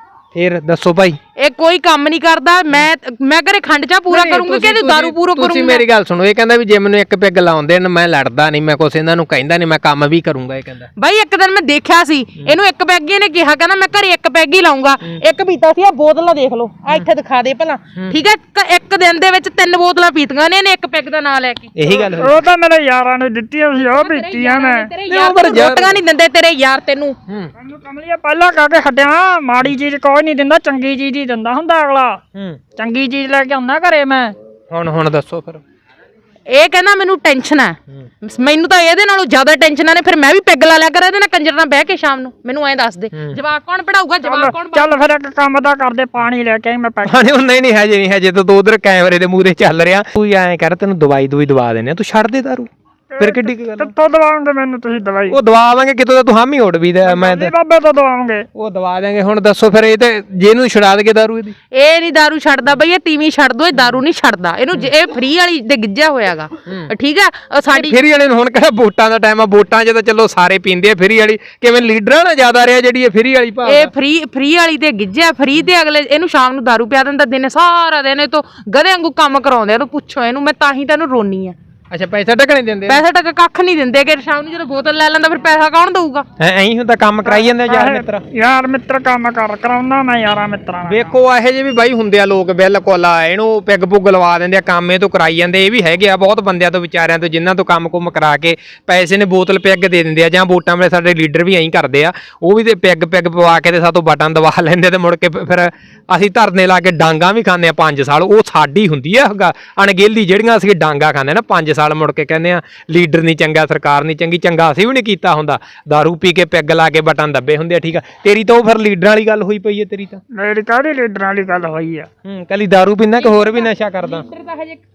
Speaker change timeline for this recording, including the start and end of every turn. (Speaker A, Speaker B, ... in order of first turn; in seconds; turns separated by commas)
Speaker A: 0.3-1.2, Speaker B: 1.4-5.8, Speaker A: 4.1-10.9, Speaker B: 11.0-21.7, Speaker A: 21.8-22.5, Speaker C: 21.9-24.9, Speaker B: 23.8-27.2, Speaker A: 25.1-26.0, Speaker C: 27.6-32.2, Speaker A: 32.3-32.6, Speaker C: 32.8-34.4, Speaker A: 34.7-35.6, Speaker B: 36.5-45.0, Speaker C: 44.2-47.3, Speaker A: 47.1-53.9, Speaker C: 53.1-55.4, Speaker A: 55.3-57.5, Speaker C: 57.0-58.5, Speaker A: 58.5-61.5, Speaker B: 61.7-68.0, Speaker A: 67.7-73.9, Speaker B: 73.6-81.5, Speaker A: 81.9-83.0, Speaker B: 82.9-86.3, Speaker A: 86.4-88.2, Speaker C: 87.3-91.2, Speaker A: 90.9-120.2, Speaker C: 120.3-122.1, Speaker A: 122.2-124.2, Speaker B: 123.2-124.8